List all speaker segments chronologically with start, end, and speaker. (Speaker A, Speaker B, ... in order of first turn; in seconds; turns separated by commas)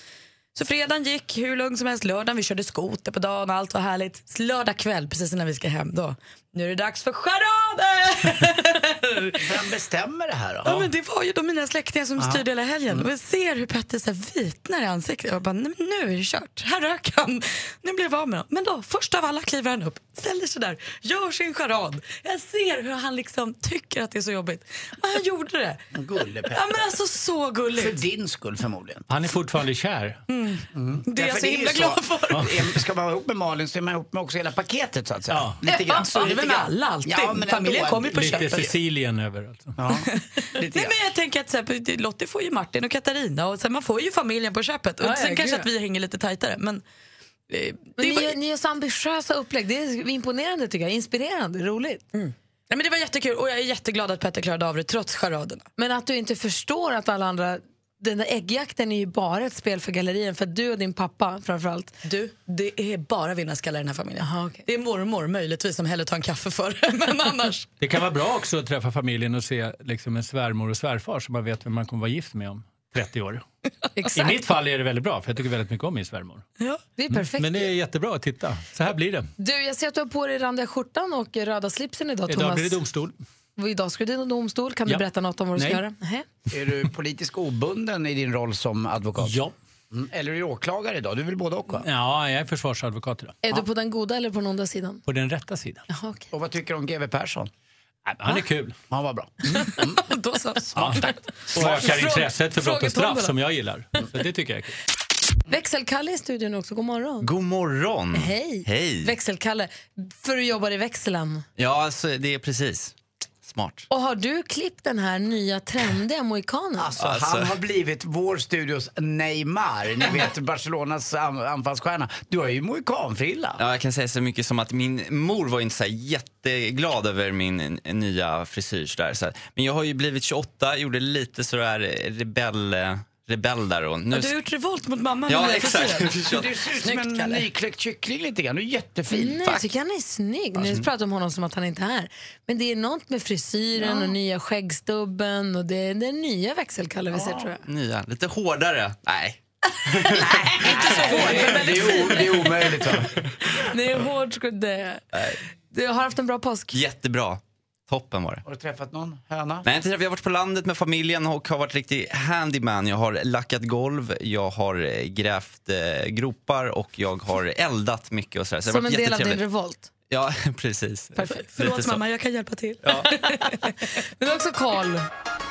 Speaker A: 0.5-9.6, Speaker B: 9.4-10.9, Speaker A: 10.6-25.9, Speaker B: 12.2-13.1, Speaker B: 25.9-26.9, Speaker A: 26.4-28.0, Speaker B: 27.7-29.0, Speaker C: 29.1-30.2, Speaker A: 30.3-32.5, Speaker B: 30.7-38.7, Speaker C: 35.3-35.6, Speaker A: 35.9-38.7, Speaker C: 38.1-39.8, Speaker B: 39.8-40.9, Speaker A: 39.9-46.8, Speaker D: 45.0-45.7, Speaker A: 47.5-48.3, Speaker D: 48.0-52.0, Speaker A: 52.1-55.6, Speaker D: 55.8-62.0, Speaker A: 62.0-67.7, Speaker D: 64.2-64.6, Speaker C: 67.8-73.4, Speaker D: 74.0-74.4, Speaker C: 74.1-76.4, Speaker D: 77.0-77.7, Speaker C: 77.1-79.3, Speaker D: 79.4-82.8, Speaker C: 82.3-83.1, Speaker D: 83.6-86.2, Speaker C: 85.5-85.8, Speaker B: 86.5-89.4, Speaker C: 89.2-89.5, Speaker B: 89.9-91.8, Speaker C: 91.8-93.4, Speaker D: 93.4-95.0, Speaker C: 95.0-95.8, Speaker D: 95.9-96.2, Speaker B: 96.3-97.5, Speaker C: 98.0-98.8, Speaker B: 98.9-100.0, Speaker A: 99.5-102.2, Speaker B: 100.7-101.1, Speaker C: 100.8-104.7, Speaker D: 101.8-103.3, Speaker D: 105.5-107.3, Speaker E: 107.2-109.1, Speaker D: 108.1-111.4, Speaker E: 111.6-113.8, Speaker D: 113.9-116.9, Speaker B: 116.8-123.6, Speaker E: 117.0-117.5, Speaker E: 123.6-134.3, Speaker A: 134.1-137.5, Speaker E: 135.3-136.5, Speaker B: 136.2-139.6, Speaker D: 139.1-147.6, Speaker B: 143.8-144.1, Speaker B: 147.1-147.5, Speaker E: 147.7-149.4, Speaker D: 150.0-152.3, Speaker B: 150.1-153.2, Speaker A: 150.2-152.4, Speaker D: 153.6-155.0, Speaker D: 155.7-156.8, Speaker E: 156.7-158.4, Speaker B: 158.4-159.7, Speaker E: 159.6-169.4, Speaker D: 168.6-169.9, Speaker E: 170.1-172.0, Speaker A: 171.2-173.7, Speaker D: 172.9-175.1